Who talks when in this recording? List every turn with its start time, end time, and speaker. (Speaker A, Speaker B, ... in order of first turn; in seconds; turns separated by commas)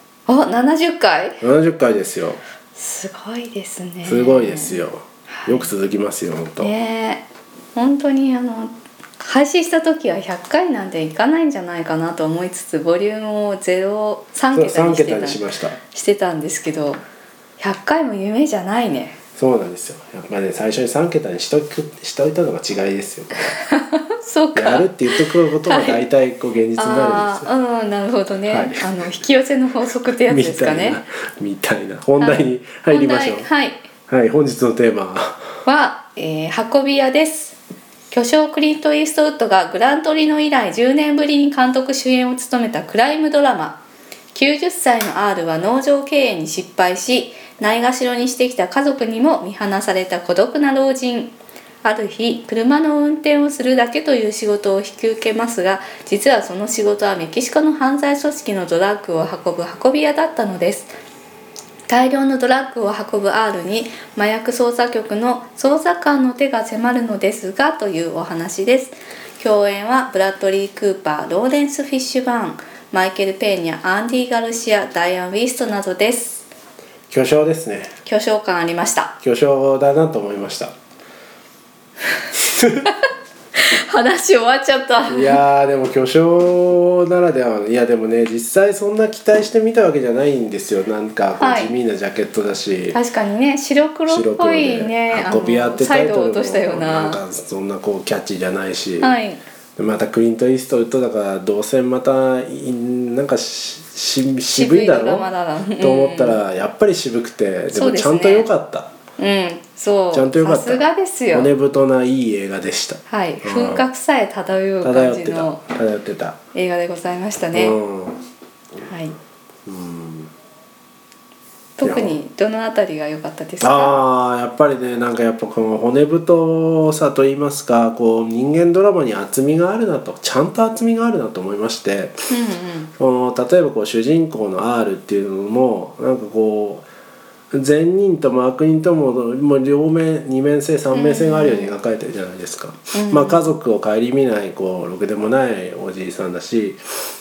Speaker A: 0.3-1.4, Speaker B: 1.4-2.4, Speaker A: 2.8-5.7, Speaker B: 4.0-6.7, Speaker A: 6.6-7.2, Speaker A: 7.8-17.0, Speaker B: 14.5-15.8, Speaker A: 17.6-19.2, Speaker B: 19.4-23.6, Speaker A: 23.6-26.0, Speaker B: 24.5-27.4, Speaker A: 26.8-31.0, Speaker B: 28.5-29.0, Speaker B: 30.2-33.5, Speaker A: 32.2-33.9, Speaker B: 34.1-35.6, Speaker A: 35.7-37.6, Speaker A: 38.1-43.8, Speaker A: 44.3-60.9, Speaker A: 61.9-76.5, Speaker B: 77.1-78.0, Speaker A: 78.1-79.1, Speaker B: 79.2-80.7, Speaker B: 82.4-82.9, Speaker A: 83.5-85.4, Speaker B: 85.1-93.0, Speaker A: 91.4-91.7, Speaker A: 92.9-97.2, Speaker B: 94.1-99.1, Speaker A: 99.0-99.4, Speaker B: 99.8-105.3, Speaker A: 104.5-106.4, Speaker B: 105.8-108.9, Speaker A: 107.7-108.5, Speaker A: 109.2-111.5, Speaker B: 110.1-113.8, Speaker A: 113.1-115.6, Speaker B: 114.8-116.4, Speaker A: 116.5-117.8, Speaker B: 117.5-118.2, Speaker A: 118.9-119.2, Speaker B: 119.7-120.3, Speaker A: 121.8-124.0, Speaker B: 121.8-122.2, Speaker B: 123.6-132.2, Speaker A: 132.3-132.9, Speaker B: 133.0-136.8, Speaker B: 137.5-146.8, Speaker A: 140.9-141.8, Speaker A: 142.9-143.4